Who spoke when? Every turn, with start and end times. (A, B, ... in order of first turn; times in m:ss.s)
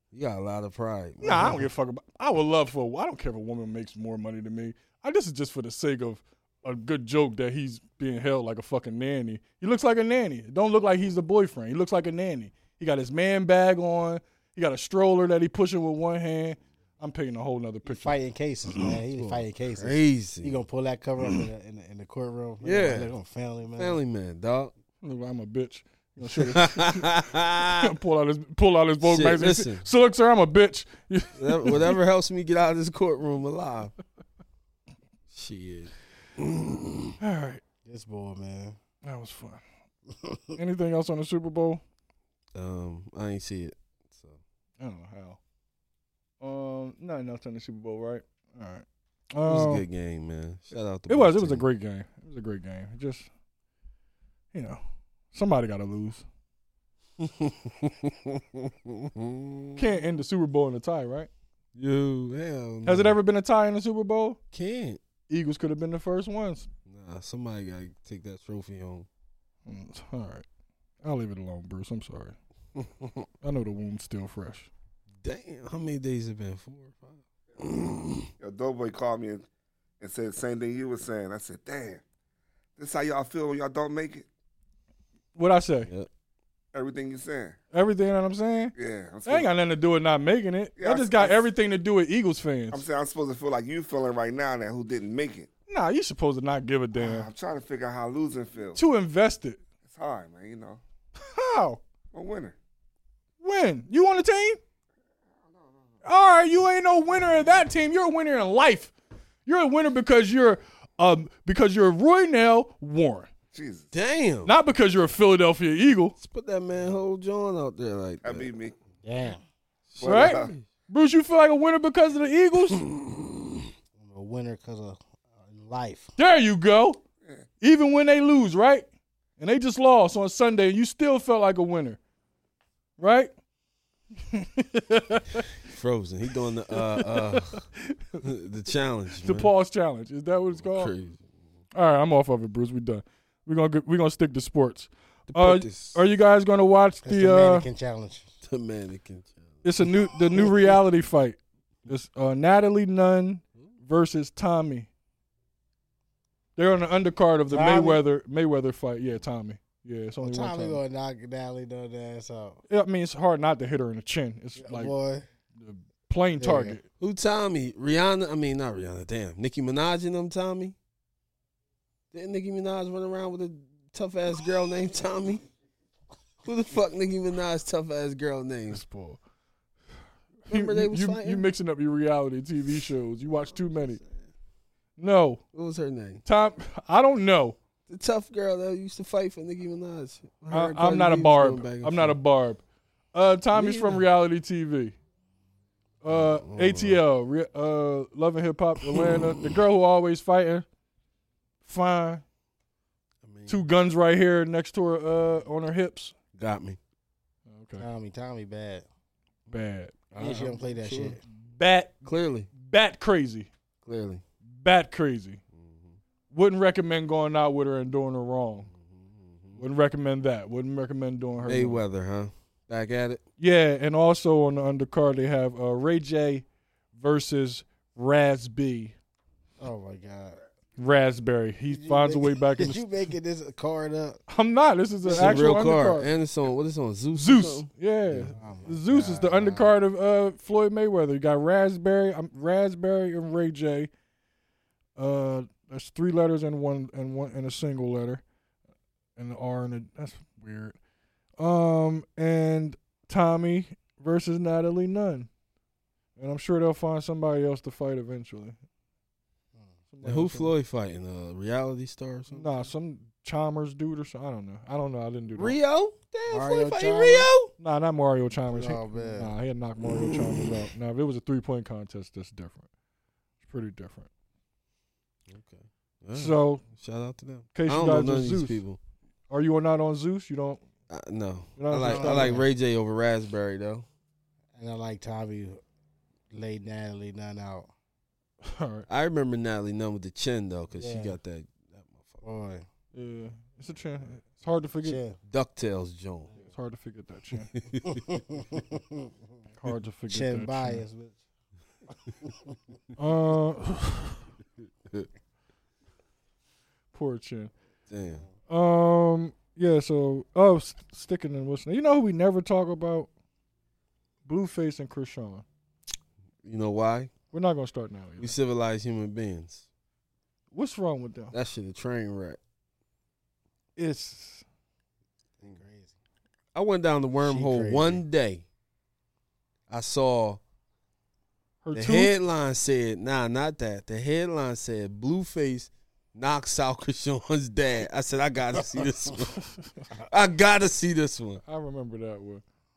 0:00.1-0:01.6 A
0:01.2-0:18.2 B
0:17.8-0:24.0 C
0:18.8-0:20.6 A
0:22.6-0:23.1 A
0:23.8-0:24.7 A
0:25.0-0:32.0 B
0:26.3-0:27.9 A
0:29.0-0:29.8 A
0:31.4-0:33.9 A
0:35.3-0:37.2 A
0:37.2-0:37.6 B
0:37.8-0:38.8 C
0:39.0-0:39.6 B
0:40.2-0:40.6 C
0:40.6-0:41.8 B
0:42.5-0:44.4 A
0:44.8-0:45.4 B
0:46.4-0:49.8 B
0:49.4-0:51.6 A
0:51.1-0:53.3 B
0:54.5-0:56.2 B
0:57.2-0:59.8 A
0:59.8-1:01.3 B
1:01.7-1:03.2 A
1:02.8-1:04.4 B
1:04.5-1:05.0 A
1:05.3-1:06.7 B
1:06.8-1:09.1 A
1:09.6-1:10.4 B
1:11.0-1:12.4 B
1:12.8-1:13.2 A
1:13.4-1:14.7 B
1:15.2-1:18.3 A
1:18.4-1:19.4 D
1:20.0-1:22.0 D
1:22.8-1:24.3 D
1:25.4-1:25.9 B
1:26.7-1:27.6 D
1:27.7-1:28.7 B
1:28.8-1:29.5 D
1:29.2-1:32.8 B
1:30.8-1:31.4 D
1:32.7-1:35.5 D
1:35.7-1:37.3 B
1:36.9-1:38.8 D
1:38.7-1:39.6 B
1:39.9-1:40.8 D
1:41.2-1:41.8 B
1:42.1-1:42.6 D
1:43.4-1:44.6 B
1:45.5-1:45.8 D
1:46.0-1:48.9 B
1:49.4-1:53.3 B
1:53.5-1:53.9 D
1:53.9-1:54.5 A
1:54.4-1:56.1 B
1:56.2-1:58.5 A
1:58.2-1:58.7 D
1:59.0-1:59.4 C
1:59.9-2:00.6 A
2:00.0-2:00.5 D
2:00.0-2:02.8 B
2:02.8-2:03.6 A
2:04.0-2:06.1 C
2:06.2-2:07.0 B
2:07.6-2:08.9 B
2:09.4-2:12.0 B
2:13.0-2:13.3 B
2:14.3-2:15.5 B
2:15.6-2:17.6 A
2:16.7-2:18.2 B
2:18.2-2:19.5 A
2:19.2-2:20.9 B
2:20.5-2:21.3 A
2:21.7-2:27.7 B
2:25.3-2:26.0 A
2:27.0-2:28.3 C
2:28.4-2:29.6 A
2:29.6-2:34.9 B
2:36.6-2:40.8 B
2:37.5-2:38.0 C
2:40.2-2:42.6 C
2:42.7-2:44.9 B
2:44.6-2:45.2 C
2:45.5-2:46.8 B
2:46.4-2:46.8 C
2:47.0-2:50.7 A
2:52.1-2:55.4 A
2:56.4-2:58.8 A
2:58.7-2:59.2 B
3:00.5-3:04.0 B
3:00.5-3:01.5 A
3:03.5-3:04.2 A
3:05.0-3:05.4 B
3:05.5-3:06.2 A
3:06.2-3:07.6 B
3:07.9-3:12.2 A
3:10.5-3:12.6 B
3:13.1-3:14.9 B
3:13.5-3:14.0 A
3:16.0-3:20.6 B
3:16.1-3:17.0 A
3:18.8-3:19.5 A
3:21.6-3:22.2 B
3:23.2-3:23.6 A
3:23.5-3:26.1 B
3:26.4-3:26.8 A
3:27.5-3:27.8 B
3:27.8-3:28.8 C
3:29.5-3:30.1 B
3:30.1-3:31.2 A
3:30.1-3:31.2 C
3:31.5-3:33.5 B
3:32.0-3:32.5 A
3:33.8-3:34.2 A
3:34.6-3:35.4 B
3:35.5-3:36.0 A
3:36.3-3:38.7 B
3:38.7-3:39.6 A
3:39.6-3:41.8 B
3:41.4-3:43.2 A
3:43.4-3:48.9 B
3:49.6-3:50.4 C
3:50.8-3:52.8 B
3:51.7-3:54.2 C
3:54.3-3:56.1 B
3:55.0-3:58.3 A
3:55.0-3:55.5 C
3:57.1-4:03.9 B
3:58.3-3:59.7 C
4:05.0-4:08.2 B
4:09.2-4:10.8 B
4:11.4-4:15.3 B
4:16.2-4:18.6 B
4:19.9-4:20.5 B
4:20.0-4:22.5 A
4:22.3-4:25.6 B
4:25.4-4:27.5 A
4:26.3-4:27.3 C
4:27.6-4:32.6 B
4:28.5-4:29.3 C
4:29.8-4:30.5 A
4:33.4-4:34.1 B
4:35.3-4:38.8 A
4:36.1-4:36.6 B
4:37.5-4:38.6 B
4:39.3-4:40.6 B
4:40.9-4:43.8 A
4:41.6-4:42.4 B
4:41.7-4:42.4 C
4:44.5-4:45.6 C
4:46.3-4:47.7 C
4:48.4-4:48.8 B
4:48.9-4:52.2 A
4:50.7-4:51.1 C
4:52.2-4:52.6 C
4:52.9-4:55.0 B
4:54.8-4:55.2 C
4:55.3-4:56.3 A
4:56.5-4:57.5 B
4:57.5-4:58.0 A
4:57.9-4:59.1 C
4:59.6-5:00.8 B
5:00.1-5:01.2 C
5:02.3-5:02.5 C
5:03.0-5:04.2 B
5:06.9-5:07.5 B
5:07.9-5:08.2 A
5:08.5-5:13.1 B
5:14.2-5:15.4 B
5:16.4-5:17.1 A
5:17.3-5:18.4 B
5:18.2-5:19.6 A
5:20.5-5:21.3 B
5:21.3-5:22.4 A
5:23.8-5:24.4 B
5:25.4-5:25.9 C
5:26.5-5:28.4 A
5:27.2-5:28.0 C
5:29.7-5:30.4 A
5:31.6-5:32.1 B
5:31.7-5:41.4 A
5:41.4-5:42.4 B